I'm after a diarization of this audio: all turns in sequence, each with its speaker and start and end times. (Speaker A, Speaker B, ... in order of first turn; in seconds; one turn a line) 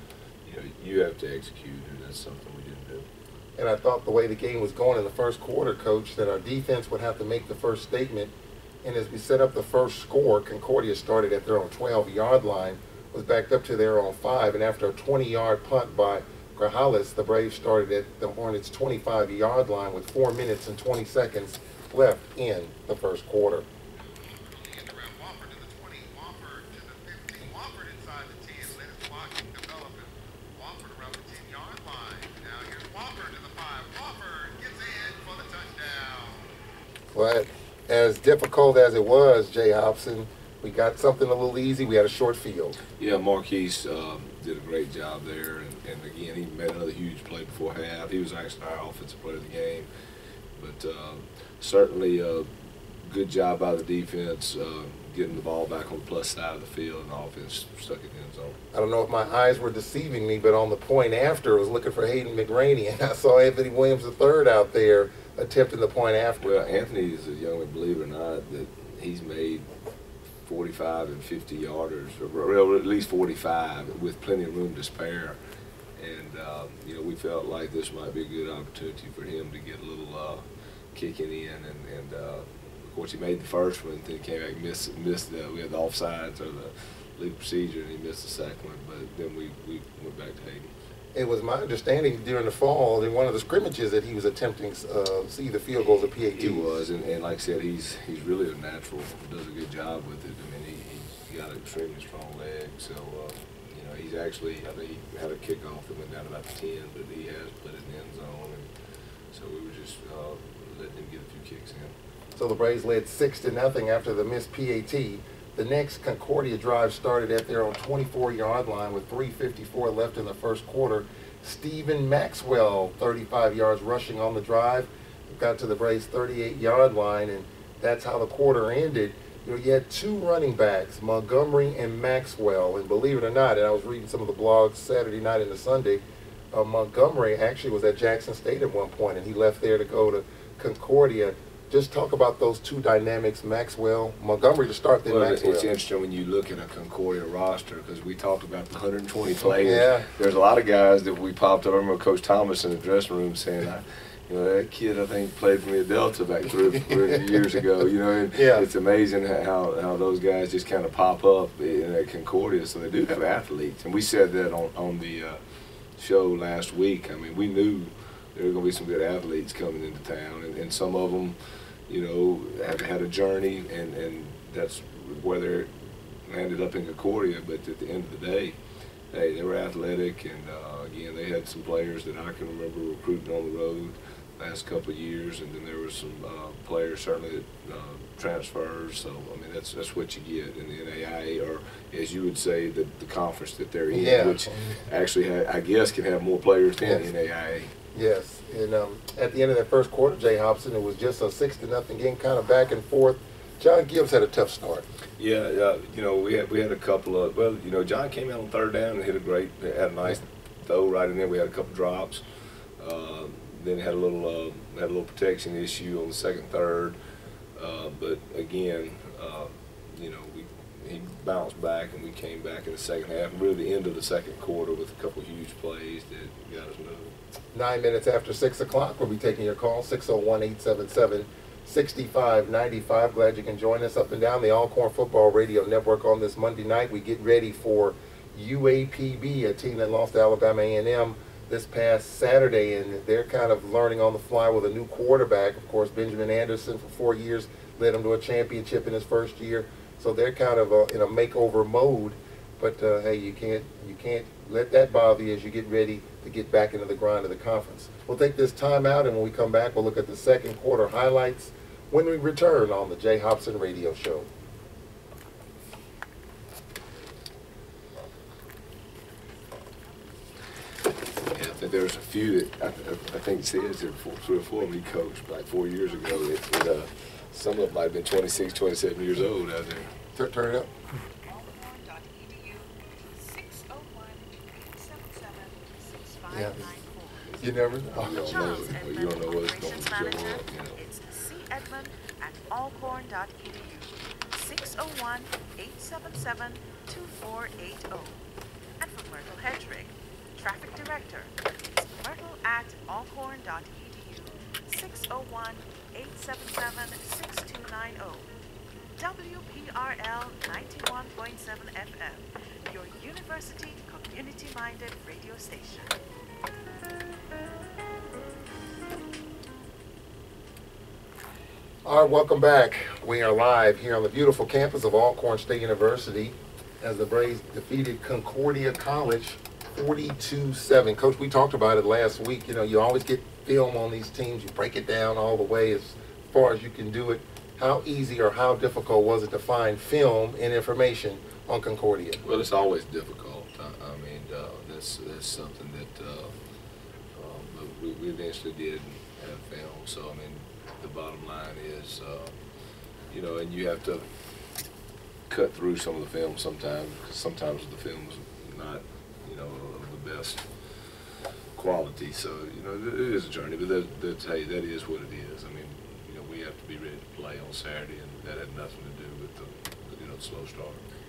Speaker A: 0.4-3.1
Speaker B: 3.6-8.3
Speaker B: 8.8-36.5
Speaker B: 37.1-42.8
Speaker A: 43.0-49.9
Speaker A: 50.5-58.6
Speaker B: 58.7-66.4
Speaker A: 66.4-69.7
Speaker A: 70.4-75.4
Speaker A: 76.0-90.7
Speaker B: 91.1-96.8
Speaker A: 96.3-108.7
Speaker A: 109.3-112.0
Speaker B: 112.3-136.0
Speaker B: 136.5-145.7
Speaker A: 145.0-165.4
Speaker B: 149.4-150.1
Speaker B: 156.9-157.2
Speaker B: 158.3-158.7
Speaker A: 166.0-171.4
Speaker A: 171.9-178.6
Speaker A: 179.1-197.7
Speaker B: 193.9-194.8
Speaker B: 197.9-204.8
Speaker A: 205.2-212.2
Speaker A: 212.8-217.0
Speaker A: 217.5-227.2
Speaker B: 227.5-264.3
Speaker A: 271.3-279.9
Speaker C: 276.0-276.2
Speaker B: 280.1-280.7
Speaker C: 281.2-298.2
Speaker B: 286.3-286.7
Speaker A: 287.3-290.8
Speaker B: 287.4-288.6
Speaker C: 298.8-301.3
Speaker C: 301.8-308.2
Speaker C: 309.0-315.9
Speaker B: 321.8-342.2
Speaker A: 342.2-346.3
Speaker A: 347.1-352.4
Speaker A: 353.1-354.1
Speaker A: 355.3-360.5
Speaker A: 361.5-370.8